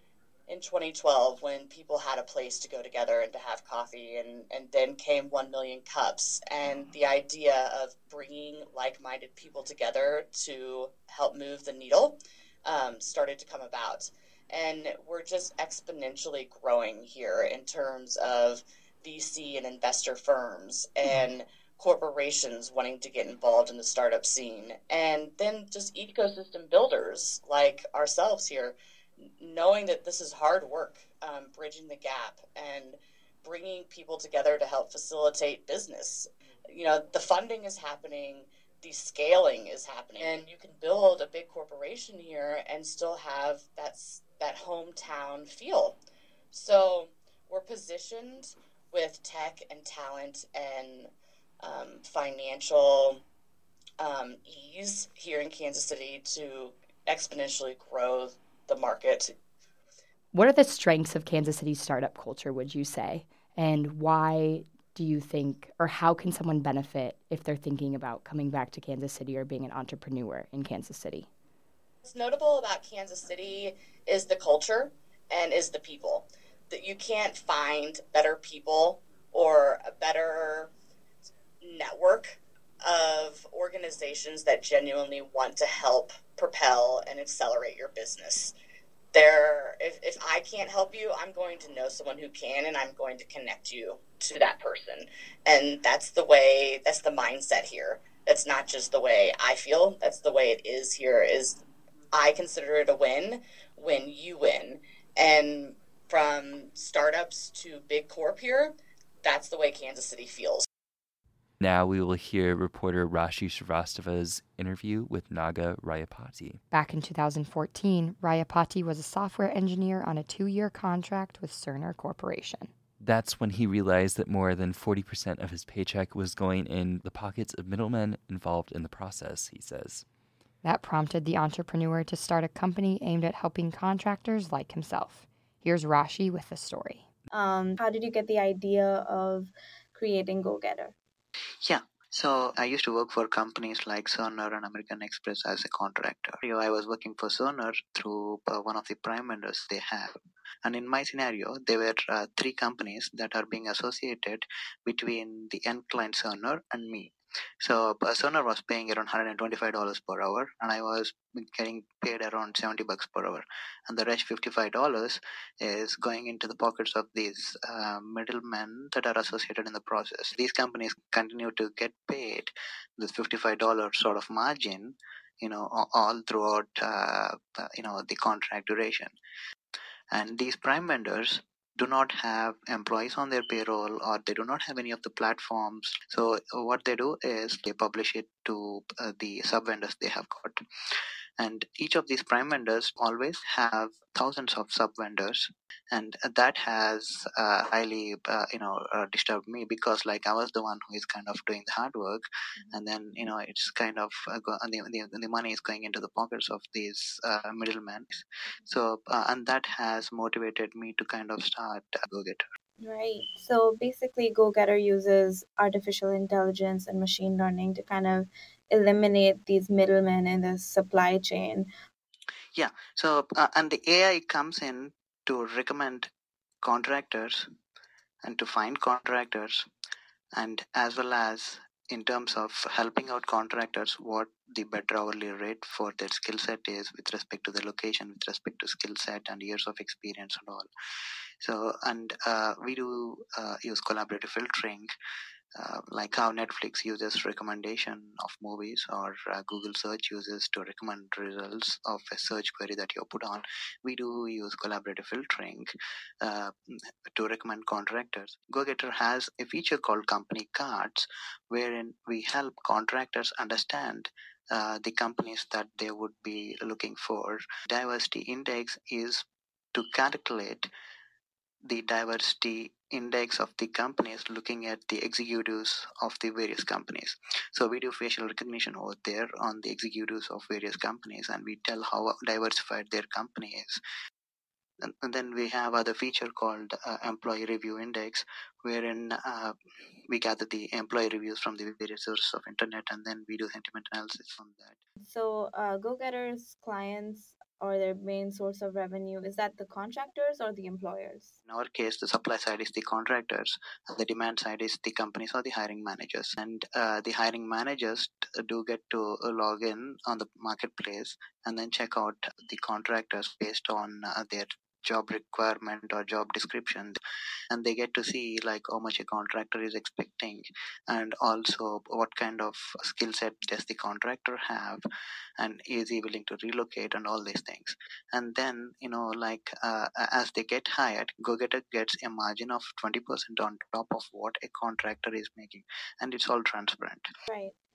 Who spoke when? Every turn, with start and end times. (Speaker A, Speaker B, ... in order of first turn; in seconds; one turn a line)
Speaker A: 0.5-46.0
Speaker A: 46.5-51.1
Speaker A: 51.6-53.2
Speaker A: 54.0-59.4
Speaker B: 60.3-71.3
Speaker A: 72.0-80.7
Speaker A: 81.6-88.5
Speaker A: 89.1-101.6
Speaker A: 102.1-110.7
Speaker C: 111.6-116.6
Speaker B: 116.7-122.7
Speaker C: 123.0-130.1
Speaker B: 130.6-137.1
Speaker D: 137.3-140.9
Speaker E: 141.7-179.1
Speaker E: 180.1-190.6
Speaker E: 191.4-212.4
Speaker D: 212.8-221.7
Speaker E: 222.6-226.1
Speaker E: 226.6-227.5
Speaker E: 228.2-229.7
Speaker E: 230.4-240.7
Speaker E: 241.4-244.9
Speaker E: 245.6-255.7
Speaker E: 256.2-270.7
Speaker E: 271.6-283.8
Speaker E: 284.8-289.6
Speaker E: 290.1-294.8
Speaker D: 295.0-301.3
Speaker E: 301.5-317.0
Speaker E: 317.5-324.8
Speaker E: 325.4-337.1
Speaker D: 337.3-337.5